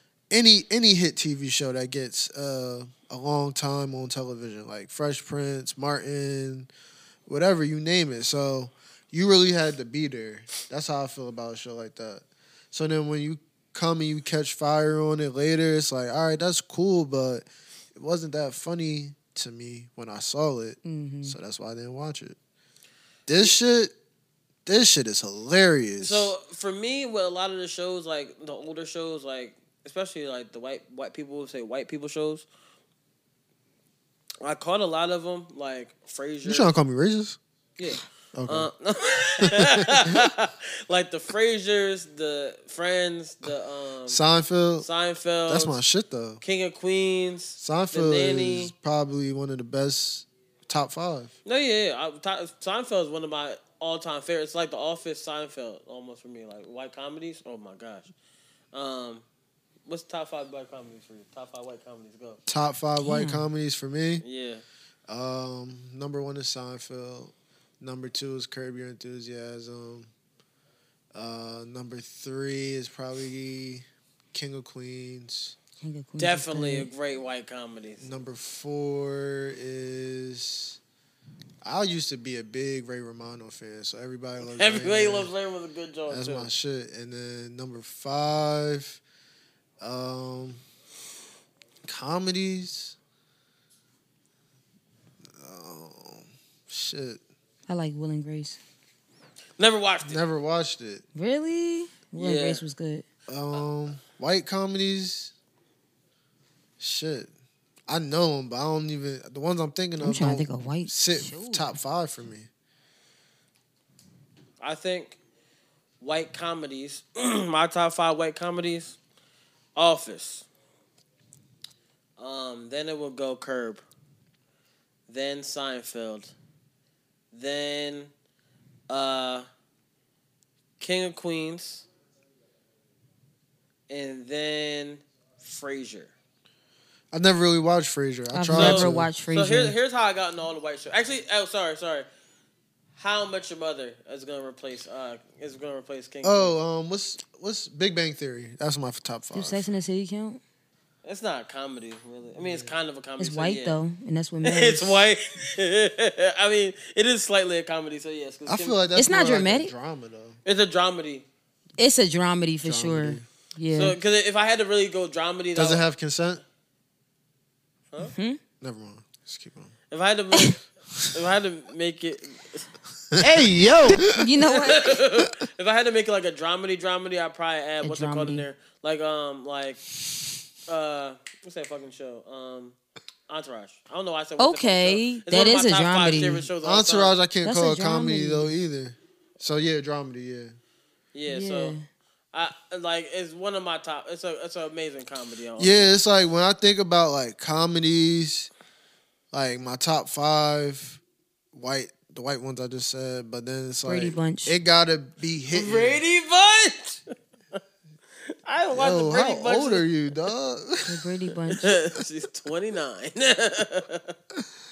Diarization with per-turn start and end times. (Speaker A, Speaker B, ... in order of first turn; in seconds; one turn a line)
Speaker A: 0.3-6.7
Speaker A: 7.3-22.4
Speaker B: 20.8-21.4
Speaker A: 23.3-23.9
Speaker A: 24.6-26.3
Speaker C: 26.0-32.4
Speaker C: 34.4-36.7
Speaker A: 36.4-37.4
Speaker C: 37.8-44.2
Speaker A: 38.3-38.7
Speaker A: 39.4-40.3
Speaker A: 44.1-44.9
Speaker C: 44.8-45.8
Speaker A: 45.5-46.4
Speaker C: 46.4-48.7
Speaker A: 47.6-51.3
Speaker C: 51.5-58.1
Speaker C: 58.7-59.2
Speaker C: 59.9-62.4
Speaker A: 62.5-64.2
Speaker B: 63.0-63.5
Speaker C: 64.2-64.6
Speaker A: 65.1-70.1
Speaker A: 71.1-75.5
Speaker B: 75.8-76.9
Speaker C: 76.2-78.0
Speaker A: 78.0-80.8
Speaker A: 81.6-85.3
Speaker C: 84.5-86.5
Speaker A: 86.1-89.0
Speaker A: 89.8-90.6
Speaker A: 91.8-93.0
Speaker A: 95.3-97.2
Speaker B: 97.7-98.6
Speaker C: 99.6-100.2
Speaker A: 100.0-101.0
Speaker B: 101.1-103.0
Speaker C: 102.2-102.6
Speaker A: 103.3-105.3
Speaker A: 106.8-107.3
Speaker A: 107.9-112.5
Speaker B: 110.0-111.8
Speaker C: 114.6-115.2
Speaker C: 116.0-119.0
Speaker C: 119.8-120.4
Speaker C: 122.2-123.8
Speaker C: 125.1-126.3
Speaker C: 127.3-128.1
Speaker C: 128.9-129.4
Speaker C: 130.8-131.8
Speaker C: 133.9-136.1
Speaker A: 137.1-139.1
Speaker B: 138.3-139.7
Speaker C: 138.5-142.1
Speaker C: 143.0-146.5
Speaker A: 146.2-149.7
Speaker B: 149.3-150.4
Speaker C: 151.0-153.8
Speaker A: 152.4-152.7
Speaker B: 153.2-154.9
Speaker C: 154.4-158.8
Speaker A: 158.4-160.4
Speaker B: 158.9-159.7
Speaker C: 160.4-161.2
Speaker B: 161.8-163.9
Speaker A: 162.6-163.2
Speaker C: 163.7-165.8
Speaker A: 165.6-166.4
Speaker B: 168.1-168.4
Speaker A: 168.6-169.7
Speaker C: 169.9-170.6
Speaker C: 171.1-172.7
Speaker A: 173.1-174.0
Speaker B: 174.0-174.9
Speaker C: 174.4-179.8
Speaker B: 177.8-178.4
Speaker C: 180.7-182.8
Speaker C: 183.3-187.1
Speaker B: 184.4-186.4
Speaker A: 186.6-190.6
Speaker B: 187.4-188.5
Speaker C: 191.1-191.7
Speaker B: 191.3-191.8
Speaker C: 192.3-195.9
Speaker A: 195.6-198.5
Speaker A: 199.3-201.0
Speaker A: 201.5-206.0
Speaker B: 203.9-204.5
Speaker C: 205.5-207.0
Speaker C: 208.4-209.8
Speaker A: 208.7-210.9
Speaker B: 210.9-211.7
Speaker C: 211.5-214.1